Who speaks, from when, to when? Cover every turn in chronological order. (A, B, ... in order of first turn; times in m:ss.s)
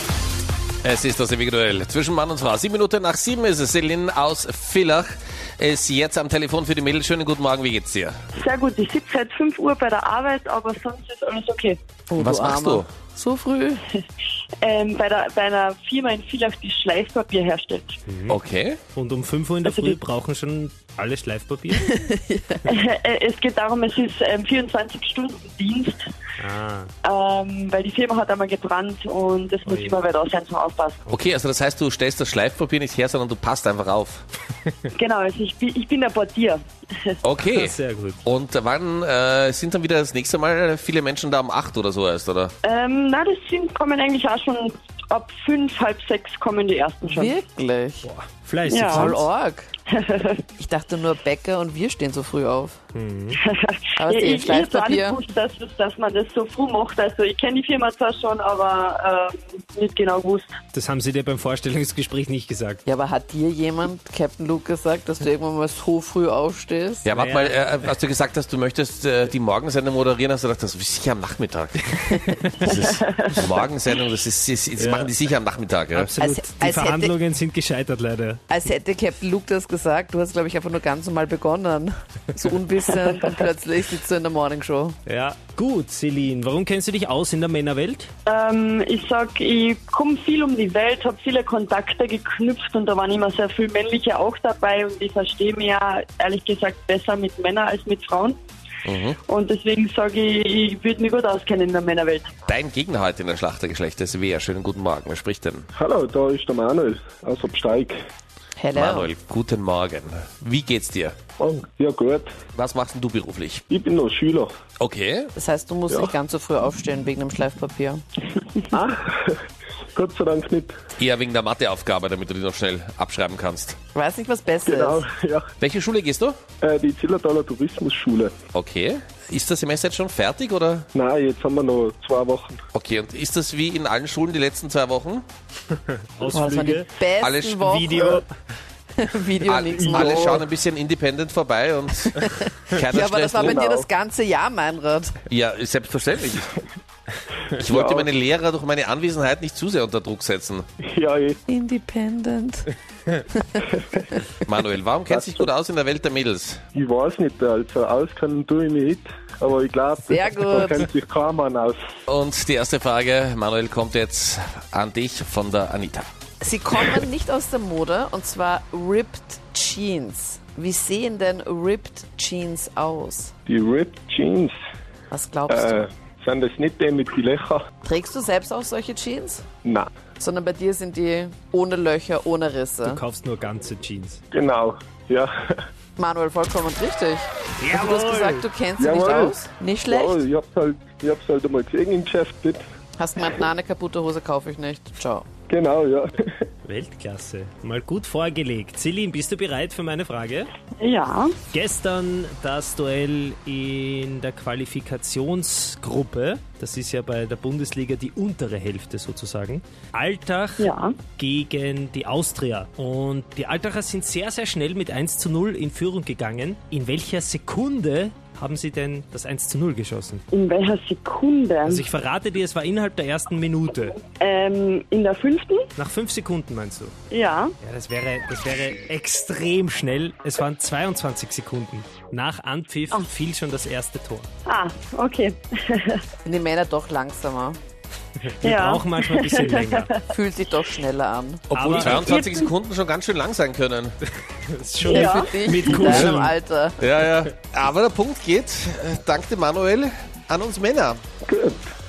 0:00.8-0:08.2 A
0:08.3-0:11.8 B
0:12.1-0:13.8 C
0:12.2-0:12.8 A
0:14.6-0:18.0 B
0:18.1-0:18.4 D
0:18.3-0:18.8 A
0:18.9-0:21.9 D
0:19.6-0:19.9 B
0:21.8-0:22.6 C
0:22.7-0:26.0 B
0:26.4-0:26.9 D
0:27.0-0:31.0 B
0:29.6-0:29.9 D
0:31.1-0:34.2 A
0:34.9-0:37.2 B
0:37.2-0:42.5 A
0:37.4-0:38.2 D
0:42.6-0:47.4 B
0:47.0-0:48.1 C
0:48.0-0:49.3 D
0:48.7-0:49.1 B
0:48.9-0:49.7 C
0:49.9-0:50.4 B
0:50.6-0:52.8 C
0:52.9-0:53.4 D
0:53.4-1:00.5 B
0:54.0-0:55.2 C
1:00.7-1:02.8 D
1:02.8-1:07.0 C
1:07.0-1:16.1 A
1:07.1-1:07.9 D
1:12.3-1:12.5 D
1:12.7-1:13.4 B
1:14.8-1:15.1 D
1:15.9-1:18.4 D
1:16.2-1:17.1 C
1:18.5-1:25.0 C
1:25.0-1:28.1 D
1:28.2-1:38.4 B
1:38.8-1:39.2 A
1:39.2-1:42.3 B
1:42.5-1:45.7 A
1:45.7-1:48.0 E
1:48.6-1:49.1 C
1:48.7-1:51.2 A
1:51.4-1:52.3 E
1:52.5-1:53.6 A
1:53.7-1:54.5 E
1:54.8-1:55.3 A
1:55.4-1:58.0 C
1:58.7-1:59.4 E
1:59.9-2:00.7 E
2:01.0-2:03.8 A
2:03.9-2:05.0 C
2:04.6-2:05.5 E
2:05.6-2:06.4 A
2:06.6-2:08.4 E
2:08.5-2:10.9 A
2:10.9-2:12.6 E
2:12.7-2:15.2 A
2:16.1-2:16.9 D
2:16.3-2:18.2 C
2:17.2-2:17.6 A
2:17.6-2:18.3 D
2:19.0-2:20.4 C
2:19.4-2:23.6 A
2:19.8-2:20.4 E
2:22.2-2:25.2 C
2:23.4-2:23.9 E
2:25.3-2:26.5 A
2:27.6-2:30.6 A
2:27.7-2:28.1 E
2:30.8-2:31.4 E
2:31.5-2:32.7 C
2:33.3-2:33.6 C
2:34.4-2:36.6 A
2:35.1-2:35.5 E
2:36.7-2:41.8 E
2:40.1-2:40.9 C
2:42.1-2:46.0 A
2:46.4-2:53.3 C
2:53.5-2:54.6 E
2:55.1-2:55.8 C
2:55.5-2:57.6 E
2:57.8-2:59.4 C
2:59.6-2:59.9 E
3:00.2-3:03.0 C
3:02.8-3:04.2 D
3:04.3-3:05.6 E
3:06.0-3:10.2 C
3:07.6-3:08.4 D
3:08.8-3:09.3 E
3:09.9-3:12.6 E
3:13.0-3:15.3 C
3:15.5-3:16.2 E
3:16.6-3:20.5 D
3:20.8-3:21.3 B
3:21.5-3:40.2 D
3:30.6-3:31.0 B
3:40.3-3:41.8 B
3:41.6-3:44.0 D
3:44.2-3:45.7 B
3:45.8-3:46.9 D
3:47.1-3:47.5 B
3:47.6-3:54.3 D
3:54.4-3:56.0 B
3:56.2-3:57.6 C
3:58.2-3:59.9 D
3:58.4-3:59.7 B
4:00.1-4:01.4 C
4:01.5-4:03.9 A
4:01.5-4:02.1 D
4:01.9-4:02.5 B
4:04.5-4:06.3 D
4:04.8-4:06.0 B
4:04.9-4:06.8 C
4:06.8-4:11.0 A
4:11.2-4:11.7 E